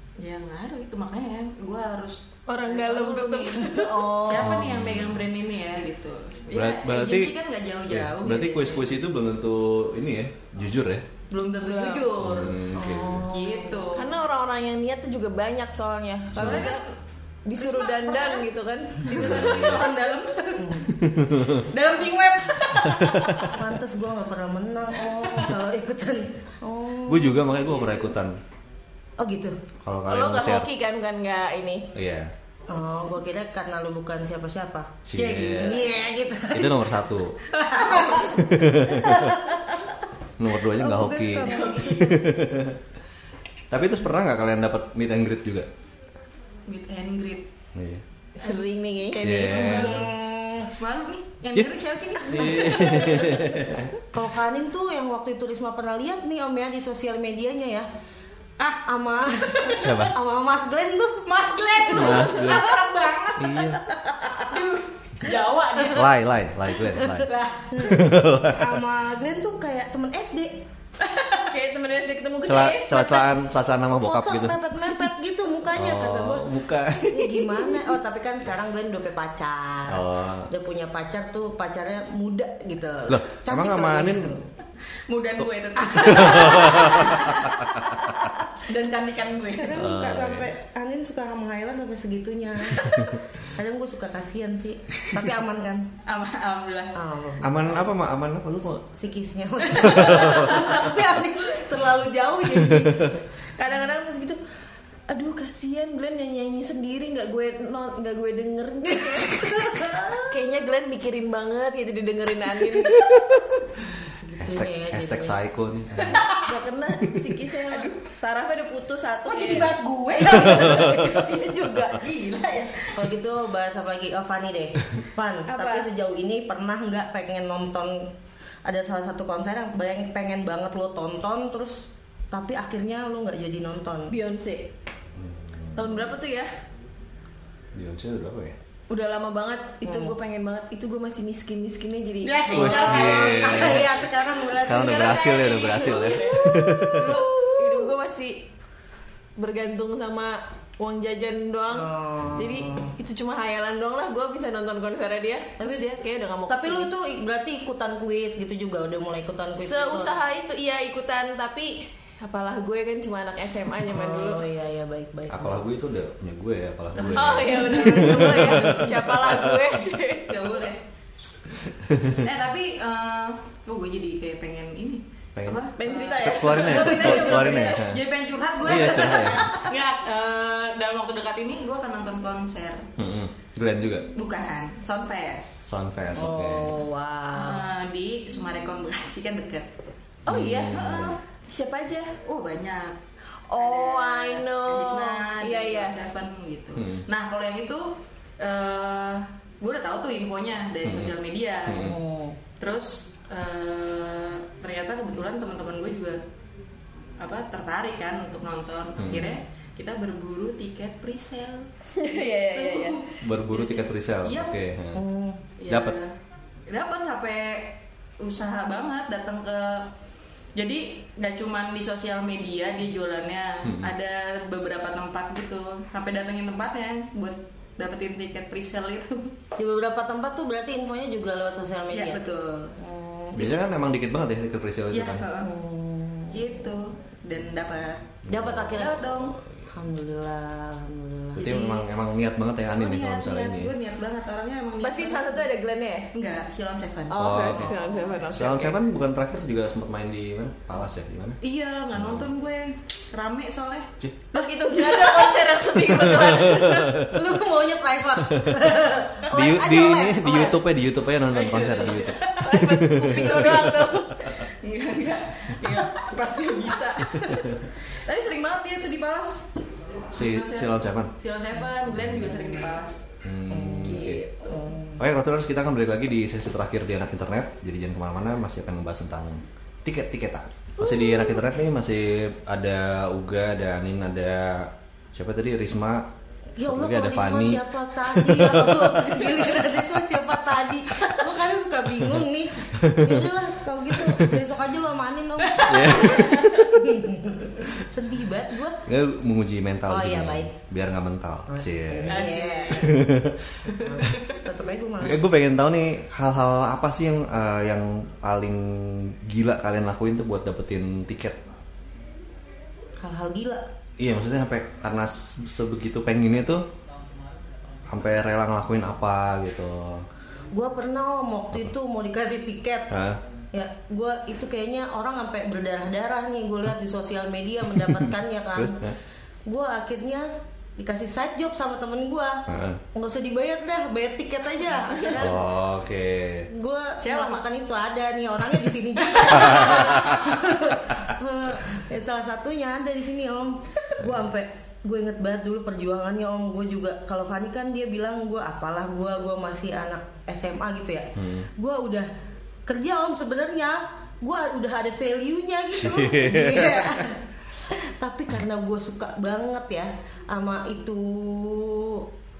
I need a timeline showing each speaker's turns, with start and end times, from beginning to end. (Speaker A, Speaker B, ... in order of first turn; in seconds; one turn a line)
Speaker A: 0.2-8.9
Speaker B: 2.5-4.4
Speaker C: 3.6-4.5
Speaker D: 4.4-5.2
Speaker D: 6.5-7.3
Speaker D: 7.9-11.0
Speaker A: 11.3-14.2
Speaker B: 11.6-12.1
Speaker D: 12.2-13.3
Speaker C: 12.7-13.9
Speaker B: 13.9-16.8
Speaker D: 16.3-16.7
Speaker A: 16.4-16.9
Speaker B: 17.4-19.5
Speaker A: 17.6-18.5
Speaker A: 19.0-20.9
Speaker D: 19.2-19.9
Speaker C: 20.6-20.9
Speaker D: 20.9-21.7
Speaker A: 21.4-23.6
Speaker D: 22.9-23.3
Speaker C: 23.4-27.5
Speaker A: 25.1-25.5
Speaker D: 27.1-28.4
Speaker C: 29.2-29.6
Speaker D: 29.8-30.7
Speaker B: 30.1-31.9
Speaker D: 31.9-32.3
Speaker C: 32.7-34.9
Speaker D: 35.0-35.8
Speaker A: 35.1-35.9
Speaker C: 35.5-37.0
Speaker D: 36.5-37.4
Speaker A: 37.5-38.3
Speaker C: 37.7-40.0
Speaker D: 38.3-39.4
Speaker D: 40.4-42.8
Speaker C: 40.6-42.2
Speaker A: 41.3-42.2
Speaker D: 43.7-45.7
Speaker A: 46.7-47.5
Speaker D: 47.7-48.0
Speaker B: 48.4-49.9
Speaker A: 48.4-50.0
Speaker D: 49.2-50.1
Speaker C: 49.6-50.7
Speaker A: 50.8-53.6
Speaker D: 51.5-53.9
Speaker C: 54.1-57.9
Speaker C: 58.8-62.9
Speaker A: 59.3-60.0
Speaker D: 59.8-60.1
Speaker A: 61.2-63.7
Speaker D: 61.9-62.7
Speaker D: 63.4-63.8
Speaker C: 63.7-64.5
Speaker A: 64.5-66.1
Speaker D: 65.9-68.8
Speaker A: 67.0-67.8
Speaker C: 67.2-70.6
Speaker A: 71.1-71.3
Speaker B: 71.3-73.3
Speaker D: 72.5-74.6
Speaker C: 73.9-84.5
Speaker D: 75.7-77.2
Speaker D: 79.9-80.5
Speaker D: 83.1-84.4
Speaker A: 85.1-89.9
Speaker C: 85.8-87.4
Speaker D: 86.0-88.1
Speaker C: 89.6-95.9
Speaker D: 89.8-90.5
Speaker D: 92.8-93.2
Speaker A: 96.0-97.0
Speaker C: 96.9-97.8
Speaker D: 97.4-98.8
Speaker C: 98.9-103.2
Speaker A: 99.8-100.6
Speaker D: 99.9-100.4
Speaker D: 102.5-103.1
Speaker B: 103.5-104.4
Speaker B: 105.1-113.2
Speaker C: 108.9-110.4
Speaker C: 114.0-115.4
Speaker D: 114.4-116.2
Speaker A: 116.0-116.4
Speaker B: 116.3-119.8
Speaker A: 117.7-118.0
Speaker A: 119.3-123.1
Speaker C: 120.2-122.1
Speaker D: 120.3-121.1
Speaker C: 122.7-128.1
Speaker B: 125.5-125.9
Speaker C: 128.6-134.1
Speaker B: 134.1-134.7
Speaker D: 135.2-136.0
Speaker B: 135.7-136.5
Speaker D: 137.7-138.6
Speaker B: 138.9-143.6
Speaker C: 139.8-140.1
Speaker A: 142.2-146.5
Speaker C: 142.3-145.9
Speaker D: 142.5-144.0
Speaker D: 144.5-147.2
Speaker C: 146.5-147.9
Speaker B: 146.6-148.5
Speaker B: 149.4-156.9
Speaker C: 151.7-152.9
Speaker C: 156.5-160.2
Speaker B: 159.6-164.4
Speaker C: 163.8-165.6
Speaker D: 165.3-169.7
Speaker B: 167.0-170.5
Speaker C: 167.5-168.7
Speaker A: 170.1-170.8
Speaker D: 171.7-172.2
Speaker A: 172.1-182.9
Speaker D: 175.3-178.0
Speaker B: 175.8-177.8
Speaker D: 178.6-179.5
Speaker C: 178.7-179.6
Speaker D: 183.0-184.1
Speaker A: 184.1-185.8
Speaker D: 185.7-186.7
Speaker C: 186.1-187.7
Speaker A: 187.3-189.7
Speaker B: 190.2-192.2
Speaker D: 190.3-191.2
Speaker A: 190.7-191.2
Speaker A: 192.2-193.0
Speaker B: 193.5-195.9
Speaker A: 193.6-202.0
Speaker D: 196.8-197.0
Speaker D: 200.8-201.1
Speaker D: 201.7-202.0
Speaker C: 201.7-202.4
Speaker A: 202.6-206.2
Speaker A: 207.2-214.7
Speaker D: 209.0-209.4
Speaker B: 211.9-213.0
Speaker D: 213.2-215.0
Speaker C: 214.9-215.4
Speaker A: 215.6-216.1
Speaker D: 215.7-216.0
Speaker A: 216.7-219.9
Speaker A: 220.5-229.4
Speaker D: 223.6-223.9
Speaker C: 229.6-232.2
Speaker A: 231.9-232.7
Speaker C: 232.8-233.6
Speaker D: 233.3-235.3
Speaker A: 234.9-235.6
Speaker C: 235.4-236.7
Speaker A: 236.3-238.2
Speaker D: 238.2-239.6
Speaker C: 238.3-241.7
Speaker A: 238.7-239.4
Speaker D: 241.3-243.7
Speaker A: 241.4-241.8
Speaker A: 242.7-245.5
Speaker B: 244.8-246.1
Speaker A: 246.1-247.7
Speaker B: 247.1-248.7
Speaker D: 247.2-247.7
Speaker D: 248.3-251.4
Speaker A: 251.4-253.9
Speaker D: 251.9-252.3
Speaker B: 254.3-257.1
Speaker A: 254.7-255.3
Speaker D: 255.8-257.2
Speaker C: 257.0-260.6
Speaker D: 258.3-258.6
Speaker D: 259.3-264.0
Speaker A: 261.3-262.7
Speaker B: 262.4-264.2
Speaker A: 264.2-269.5
Speaker D: 270.1-271.1
Speaker A: 270.1-273.0
Speaker D: 271.9-272.3
Speaker D: 273.2-274.2
Speaker C: 273.5-275.0
Speaker A: 273.9-274.6
Speaker D: 275.0-286.1
Speaker C: 286.6-298.8
Speaker D: 286.6-289.4
Speaker D: 292.7-293.3
Speaker D: 293.9-294.4
Speaker A: 295.4-296.7
Speaker D: 295.6-296.7
Speaker D: 298.9-304.1
Speaker C: 299.9-300.5
Speaker C: 301.5-303.0
Speaker A: 302.1-303.0
Speaker A: 303.7-304.2
Speaker C: 303.8-305.3
Speaker D: 305.0-311.4
Speaker C: 313.0-313.6
Speaker D: 314.0-316.6
Speaker D: 317.9-320.0
Speaker C: 320.5-322.9
Speaker D: 322.9-323.2
Speaker C: 323.5-328.9
Speaker D: 327.8-328.9
Speaker C: 329.4-335.5
Speaker D: 332.5-332.8
Speaker D: 335.2-336.5
Speaker C: 336.5-352.1
Speaker A: 337.0-337.5
Speaker A: 339.3-339.7
Speaker D: 339.7-340.2
Speaker C: 352.6-362.1
Speaker D: 355.8-357.1